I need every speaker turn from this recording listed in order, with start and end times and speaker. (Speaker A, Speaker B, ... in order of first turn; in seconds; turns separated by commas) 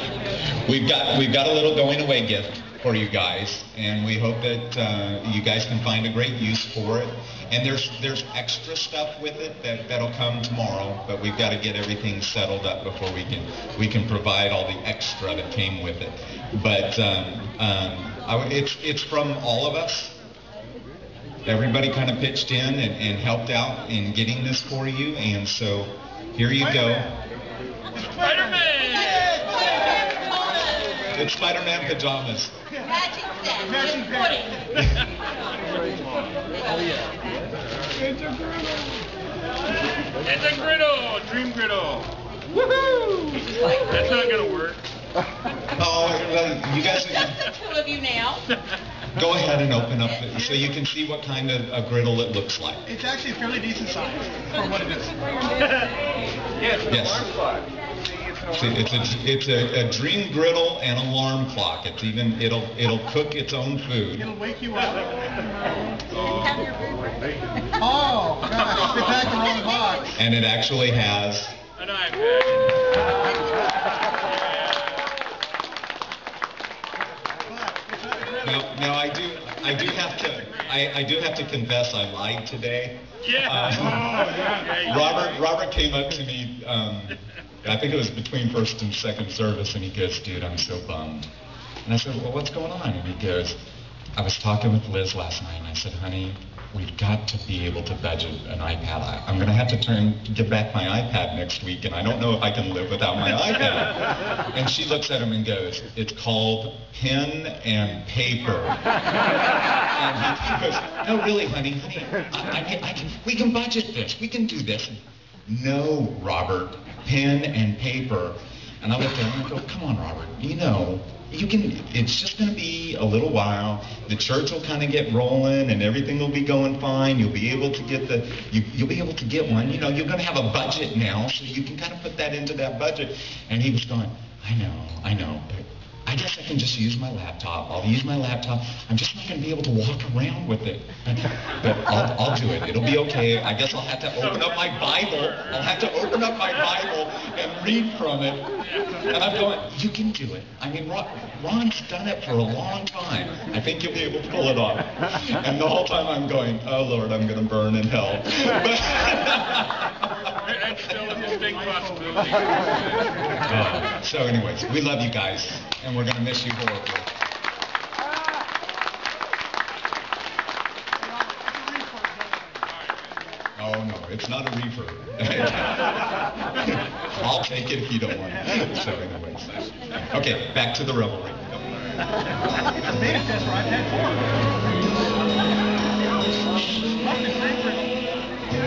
Speaker A: 0.2-20.2, Speaker A: 21.4-27.1, Speaker B: 27.9-28.7, Speaker C: 28.1-29.6, Speaker D: 29.5-31.1, Speaker A: 31.1-32.6, Speaker D: 32.8-34.7, Speaker B: 33.9-34.2, Speaker D: 36.5-37.3, Speaker C: 40.2-42.1, Speaker D: 43.3-44.1, Speaker C: 43.9-44.8, Speaker A: 45.7-47.4, Speaker D: 47.0-48.5, Speaker A: 49.1-52.9, Speaker B: 52.9-55.4, Speaker C: 56.6-57.6, Speaker A: 56.7-57.3, Speaker A: 58.4-64.3, Speaker B: 64.2-66.2, Speaker D: 66.5-67.0, Speaker B: 67.8-70.1, Speaker D: 69.7-70.0, Speaker A: 70.1-71.6, Speaker C: 71.8-75.1, Speaker B: 77.5-78.4, Speaker A: 78.4-91.3, Speaker C: 83.2-85.3, Speaker A: 91.8-93.6, Speaker A: 94.2-108.8, Speaker A: 109.8-160.3, Speaker C: 144.3-145.5, Speaker C: 148.6-149.0, Speaker C: 160.4-163.2, Speaker A: 163.4-167.1, Speaker A: 173.6-181.5, Speaker B: 182.8-184.4, Speaker B: 187.0-187.9